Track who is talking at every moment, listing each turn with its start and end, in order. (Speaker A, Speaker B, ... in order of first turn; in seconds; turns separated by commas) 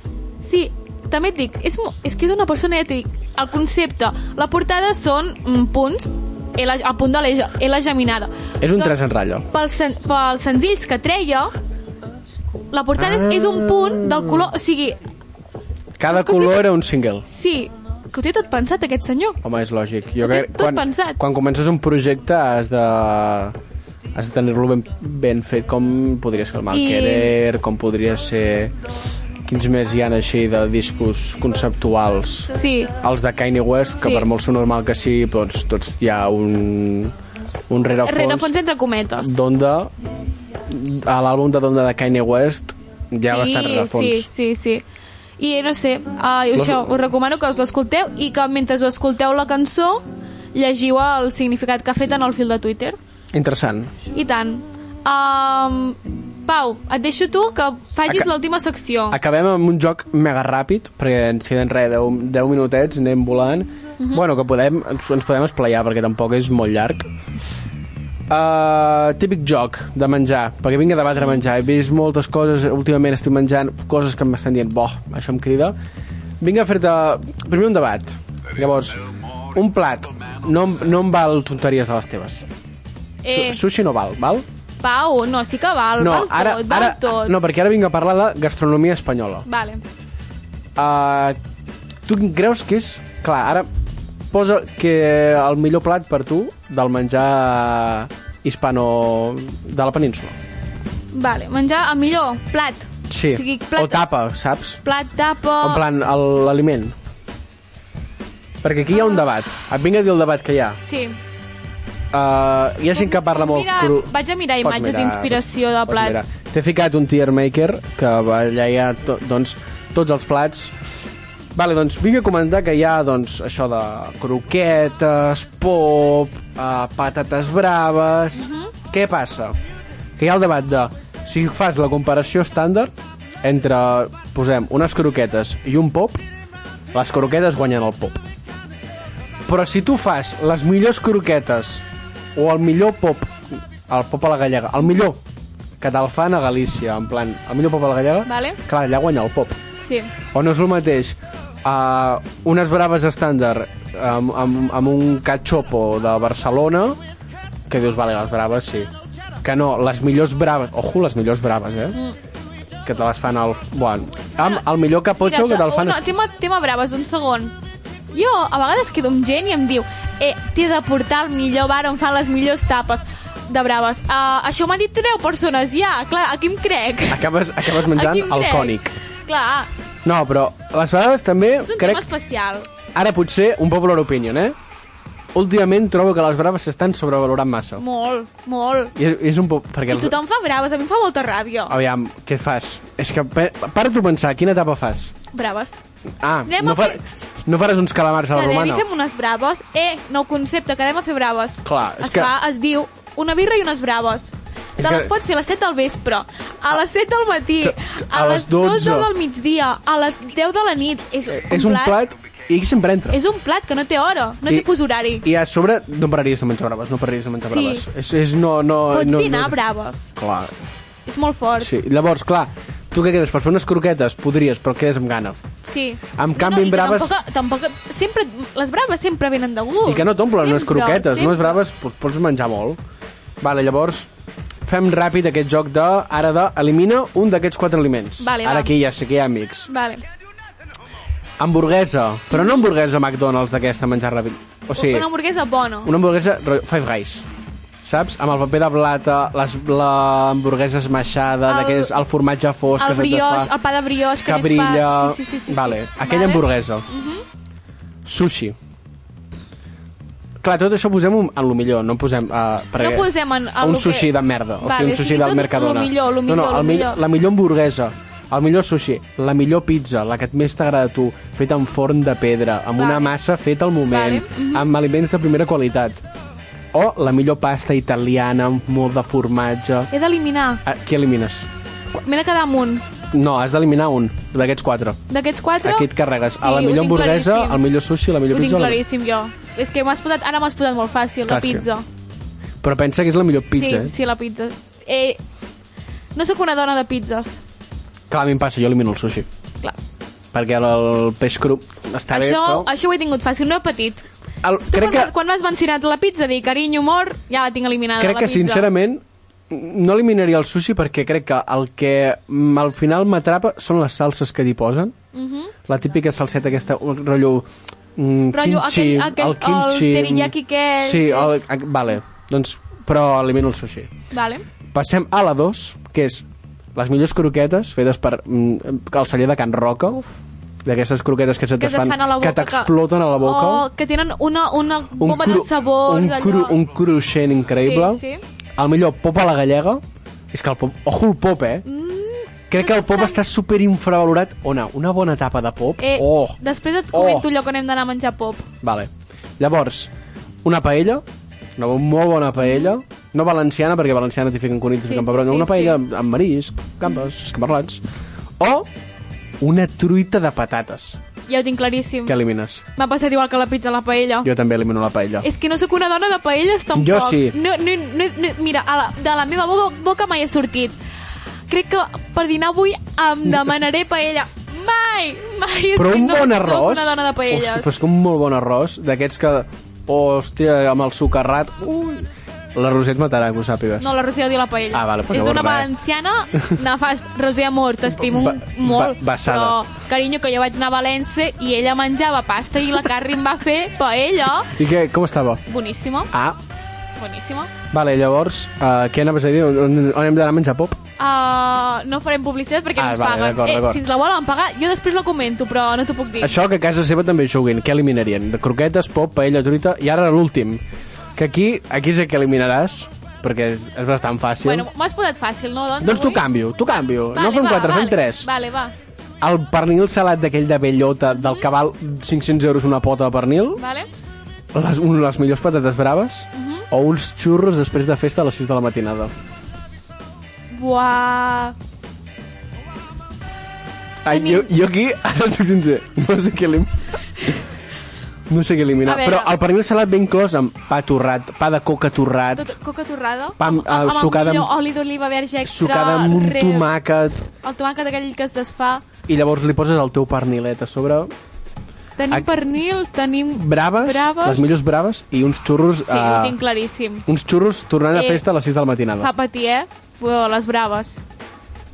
Speaker A: 0.4-9.0, Speaker B: 8.6-9.4, Speaker A: 9.5-11.5, Speaker A: 12.7-15.0, Speaker B: 13.0-14.5, Speaker B: 16.0-17.2, Speaker A: 16.1-16.7, Speaker A: 17.3-19.4, Speaker B: 19.4-23.6, Speaker A: 20.2-21.2, Speaker B: 24.1-28.8, Speaker A: 26.7-27.3, Speaker B: 29.4-37.1, Speaker A: 32.5-32.9, Speaker A: 34.0-34.3, Speaker B: 37.7-38.5, Speaker A: 38.0-39.4, Speaker B: 39.2-39.9, Speaker B: 40.7-44.3, Speaker A: 43.3-44.8, Speaker A: 45.4-53.0, Speaker B: 46.5-46.9, Speaker B: 53.3-53.9, Speaker A: 54.1-59.2, Speaker B: 59.1-67.1, Speaker B: 68.3-75.8, Speaker A: 71.2-71.4, Speaker B: 76.4-79.0, Speaker B: 79.5-82.5, Speaker A: 83.2-83.6, Speaker B: 83.3-84.5, Speaker A: 84.8-87.4, Speaker B: 86.0-89.4, Speaker A: 89.5-89.8, Speaker B: 90.8-91.4, Speaker B: 92.0-93.7, Speaker B: 94.3-100.3, Speaker A: 101.1-104.0, Speaker B: 103.1-104.8, Speaker A: 104.8-105.8, Speaker B: 105.6-106.9, Speaker B: 108.6-110.8, Speaker A: 108.9-109.3, Speaker A: 110.8-111.2, Speaker B: 112.1-120.7, Speaker A: 112.9-116.3, Speaker B: 121.5-129.6, Speaker A: 128.3-128.7, Speaker B: 130.2-136.2, Speaker B: 136.9-138.2, Speaker B: 139.4-141.8, Speaker B: 142.3-143.3, Speaker B: 143.9-145.2, Speaker B: 145.8-149.6, Speaker A: 148.2-148.6, Speaker A: 149.8-150.1, Speaker B: 150.3-157.0, Speaker B: 157.7-158.9, Speaker B: 159.4-162.0, Speaker B: 162.8-166.0, Speaker A: 165.2-167.5, Speaker A: 168.1-179.7, Speaker B: 177.1-178.9, Speaker B: 180.0-182.0, Speaker A: 181.6-182.7, Speaker B: 182.9-184.6, Speaker B: 185.3-187.8, Speaker A: 187.8-188.9, Speaker B: 188.9-190.2, Speaker A: 189.9-191.7, Speaker B: 191.7-195.1, Speaker A: 195.3-195.8, Speaker B: 196.2-198.8, Speaker A: 196.5-197.4, Speaker A: 198.3-212.0, Speaker B: 201.6-202.3, Speaker B: 204.8-205.1, Speaker B: 207.6-209.1, Speaker B: 211.3-213.2, Speaker A: 213.1-215.2, Speaker B: 215.2-219.6, Speaker A: 217.5-217.8, Speaker A: 218.9-220.1, Speaker B: 220.2-220.5, Speaker A: 221.1-221.7, Speaker B: 221.6-225.4, Speaker A: 225.6-231.6, Speaker B: 226.2-227.1, Speaker B: 229.8-232.8, Speaker B: 233.4-234.1, Speaker B: 234.6-239.7, Speaker A: 238.2-238.7, Speaker A: 239.7-240.0, Speaker B: 241.4-245.1, Speaker A: 242.3-242.7, Speaker A: 244.7-245.9, Speaker B: 245.8-247.3, Speaker B: 247.8-253.5, Speaker A: 251.5-251.9, Speaker A: 252.8-257.2, Speaker B: 254.2-256.9, Speaker B: 258.0-258.6, Speaker B: 260.4-276.0, Speaker A: 262.8-267.0, Speaker A: 272.8-273.1, Speaker A: 273.9-274.7, Speaker B: 276.7-279.9, Speaker A: 279.9-280.6, Speaker B: 280.6-281.5, Speaker A: 281.9-282.8, Speaker B: 283.1-285.0, Speaker A: 285.1-287.6, Speaker B: 285.6-288.8, Speaker A: 288.3-291.8, Speaker B: 291.3-291.7, Speaker B: 292.6-293.9, Speaker A: 293.5-295.2, Speaker A: 296.1-297.4, Speaker B: 298.1-299.3, Speaker B: 300.3-302.7, Speaker A: 302.1-304.0, Speaker B: 304.4-305.1, Speaker A: 304.7-308.7, Speaker B: 308.0-314.9, Speaker A: 315.1-315.5, Speaker B: 315.7-323.9, Speaker A: 318.3-321.4, Speaker A: 324.1-324.4, Speaker B: 324.7-330.0, Speaker A: 329.9-330.1, Speaker B: 330.6-333.7, Speaker A: 331.6-336.6, Speaker B: 335.0-338.0, Speaker A: 337.6-338.2, Speaker B: 338.6-341.6, Speaker A: 341.6-343.2, Speaker B: 342.5-346.4, Speaker A: 345.8-348.5, Speaker B: 346.9-347.3, Speaker B: 348.6-349.9, Speaker B: 350.4-351.1, Speaker B: 351.6-357.8, Speaker A: 352.4-352.7, Speaker A: 354.8-355.8, Speaker B: 358.4-358.7, Speaker B: 359.4-361.0, Speaker A: 361.3-362.2, Speaker B: 362.1-362.6, Speaker A: 362.8-364.3, Speaker B: 364.2-365.3, Speaker A: 365.2-370.8, Speaker B: 366.7-367.4, Speaker A: 371.5-377.7, Speaker B: 375.7-383.9, Speaker A: 383.8-394.5, Speaker B: 384.7-385.7, Speaker B: 387.9-389.6, Speaker B: 394.5-395.4, Speaker A: 395.5-396.1, Speaker B: 396.1-396.4, Speaker A: 397.0-397.5, Speaker B: 397.7-400.8, Speaker A: 401.0-406.4, Speaker B: 402.8-403.8, Speaker B: 406.2-410.6, Speaker B: 411.1-414.7, Speaker A: 414.4-418.7, Speaker B: 415.8-418.3, Speaker B: 419.2-423.6, Speaker A: 421.1-421.5, Speaker A: 423.6-423.9, Speaker B: 424.5-429.1, Speaker A: 426.3-426.6, Speaker A: 430.5-431.5, Speaker B: 434.0-437.4, Speaker A: 434.1-434.5, Speaker B: 438.3-442.5, Speaker A: 438.8-439.3, Speaker A: 442.4-446.7, Speaker B: 443.4-444.5, Speaker B: 445.4-447.2, Speaker A: 447.4-448.8, Speaker B: 449.1-451.1, Speaker A: 452.0-454.5, Speaker B: 453.3-456.4, Speaker A: 455.8-457.0, Speaker B: 457.1-459.1, Speaker A: 457.9-458.2, Speaker A: 459.0-461.0